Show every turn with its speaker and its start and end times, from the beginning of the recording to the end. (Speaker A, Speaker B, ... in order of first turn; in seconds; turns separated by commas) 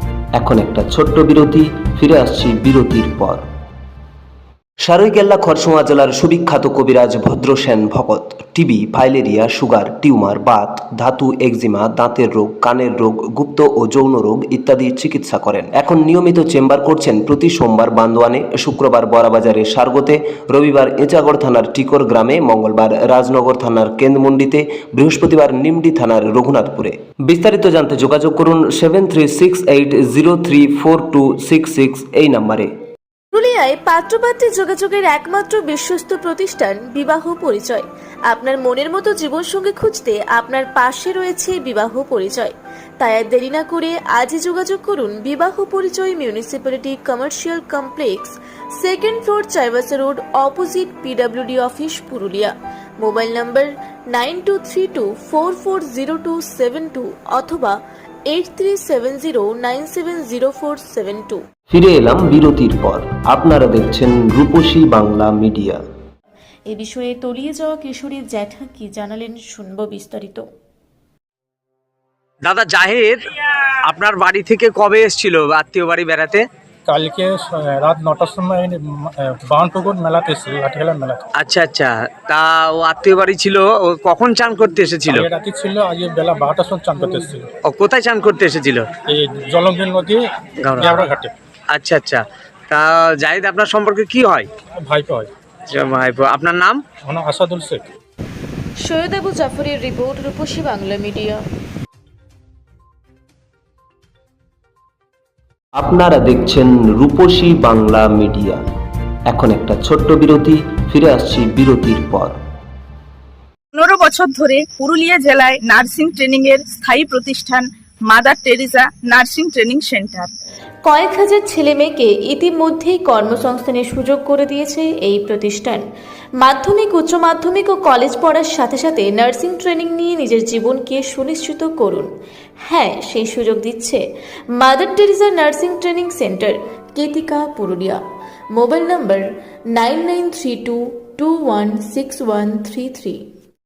Speaker A: 0.4-3.4, Speaker A: 4.8-32.7, Speaker B: 33.3-61.4, Speaker A: 61.7-65.8, Speaker B: 66.7-70.5, Speaker C: 72.4-73.2, Speaker C: 73.9-76.5, Speaker D: 76.9-81.2, Speaker C: 81.4-85.3, Speaker D: 85.1-87.5, Speaker C: 87.7-88.9, Speaker D: 89.0-90.2, Speaker C: 90.6-91.1, Speaker D: 90.8-91.3, Speaker C: 91.7-94.5, Speaker D: 94.8-95.3, Speaker C: 95.7-96.8, Speaker D: 97.0-97.9, Speaker B: 98.8-101.4, Speaker A: 105.8-108.6, Speaker A: 109.3-112.4, Speaker E: 113.7-120.3, Speaker B: 120.8-125.8, Speaker B: 126.4-132.1, Speaker B: 132.7-134.0, Speaker B: 134.6-138.0, Speaker B: 138.5-143.2